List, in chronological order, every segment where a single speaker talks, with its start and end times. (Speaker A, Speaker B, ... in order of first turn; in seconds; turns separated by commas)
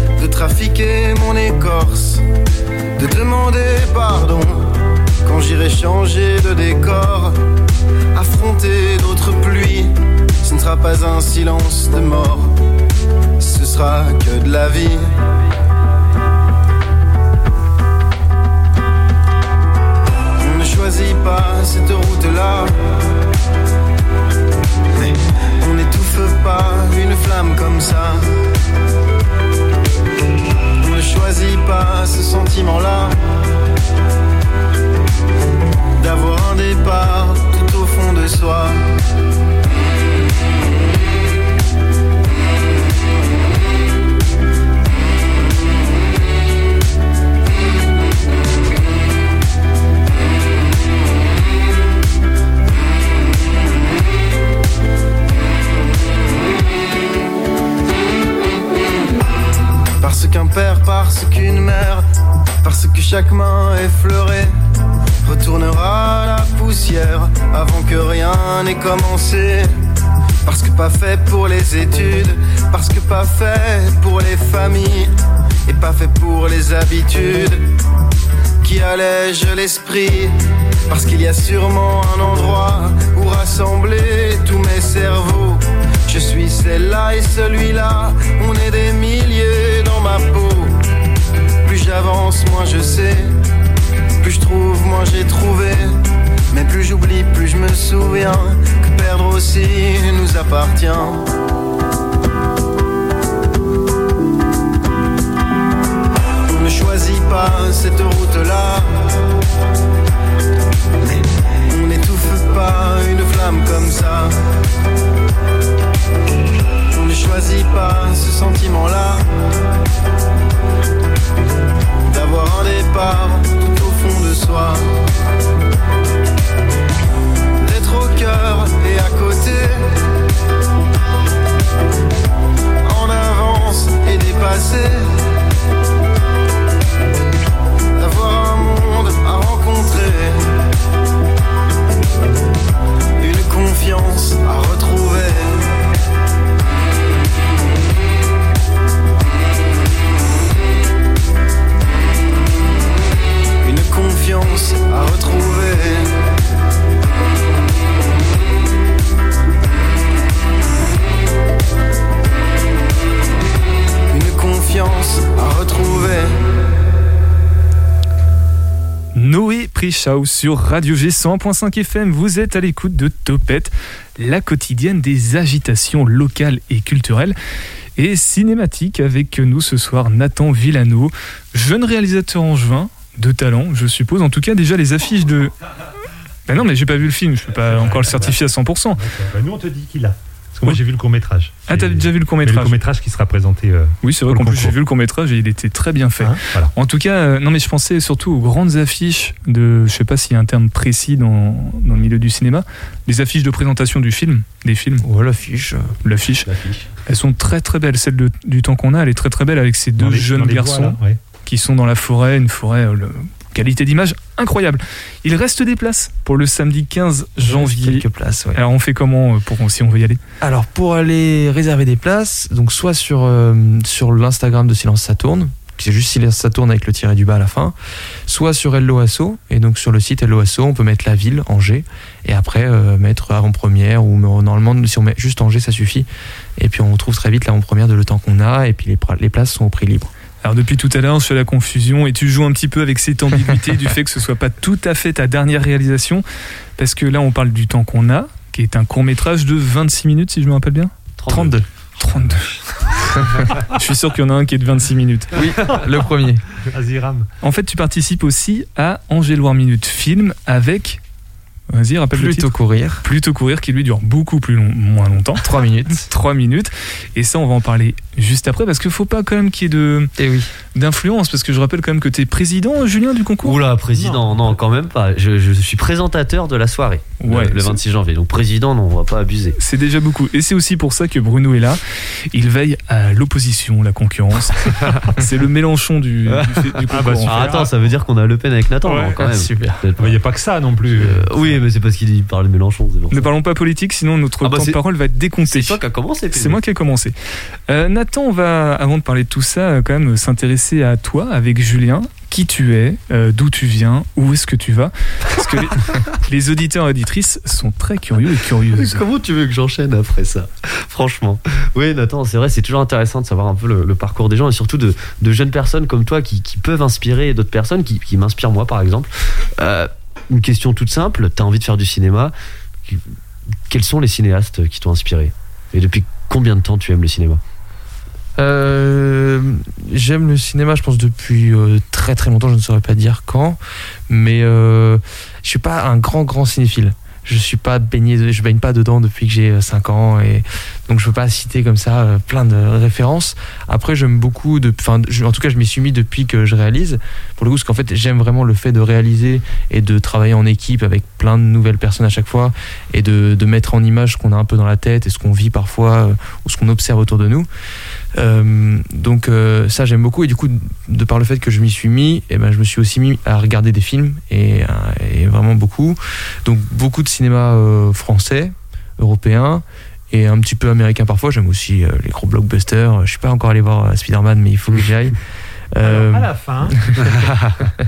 Speaker A: 0.2-2.2, Speaker A: 3.0-4.7, Speaker A: 5.2-7.3, Speaker A: 8.1-12.5, Speaker A: 13.4-15.0, Speaker A: 20.4-22.7, Speaker A: 24.9-28.2, Speaker A: 30.8-33.1, Speaker A: 36.0-38.8, Speaker A: 60.0-62.0, Speaker A: 62.6-64.5, Speaker A: 65.2-69.7, Speaker A: 70.4-75.1, Speaker A: 75.7-77.6, Speaker A: 78.6-80.3, Speaker A: 80.9-90.8, Speaker A: 91.6-93.3, Speaker A: 94.2-95.9, Speaker A: 96.5-101.2, Speaker A: 106.5-109.1, Speaker A: 111.0-114.3, Speaker A: 116.9-119.2, Speaker A: 122.1-124.9, Speaker A: 127.6-129.8, Speaker A: 132.8-135.1, Speaker A: 138.0-140.5, Speaker A: 143.2-145.7, Speaker A: 153.6-156.1, Speaker A: 164.1-166.3, Speaker B: 169.1-177.3, Speaker B: 177.9-185.5, Speaker B: 186.5-189.0, Speaker C: 187.7-188.3, Speaker C: 189.0-194.7, Speaker B: 191.7-192.8, Speaker B: 194.0-205.0, Speaker C: 196.2-196.7, Speaker D: 205.0-205.9, Speaker B: 206.0-206.5, Speaker B: 207.1-220.2, Speaker C: 210.0-211.2, Speaker D: 217.4-218.6, Speaker D: 220.4-227.7, Speaker D: 228.3-240.1, Speaker B: 240.4-246.2, Speaker B: 246.8-252.6, Speaker E: 251.2-251.6, Speaker D: 251.3-251.6, Speaker B: 253.6-255.3, Speaker D: 255.3-256.4, Speaker C: 255.6-256.0, Speaker C: 256.6-257.3, Speaker B: 257.4-261.0, Speaker B: 261.7-270.1, Speaker D: 262.1-263.0, Speaker D: 265.4-266.1, Speaker D: 270.2-270.5, Speaker B: 270.7-273.6, Speaker E: 273.4-279.6, Speaker C: 273.9-274.6, Speaker B: 277.2-277.8, Speaker B: 279.6-281.8, Speaker B: 282.3-287.4, Speaker E: 286.3-286.7, Speaker C: 286.9-287.9, Speaker E: 287.2-290.2, Speaker D: 289.1-289.8, Speaker C: 290.0-291.6, Speaker E: 290.9-293.3, Speaker B: 293.1-295.8, Speaker E: 294.4-294.8, Speaker E: 295.4-296.6, Speaker B: 296.3-297.1, Speaker B: 297.7-309.0, Speaker E: 308.7-322.3, Speaker E: 323.7-327.4, Speaker D: 328.4-357.5, Speaker D: 358.1-375.2, Speaker D: 375.7-377.6, Speaker C: 375.8-377.3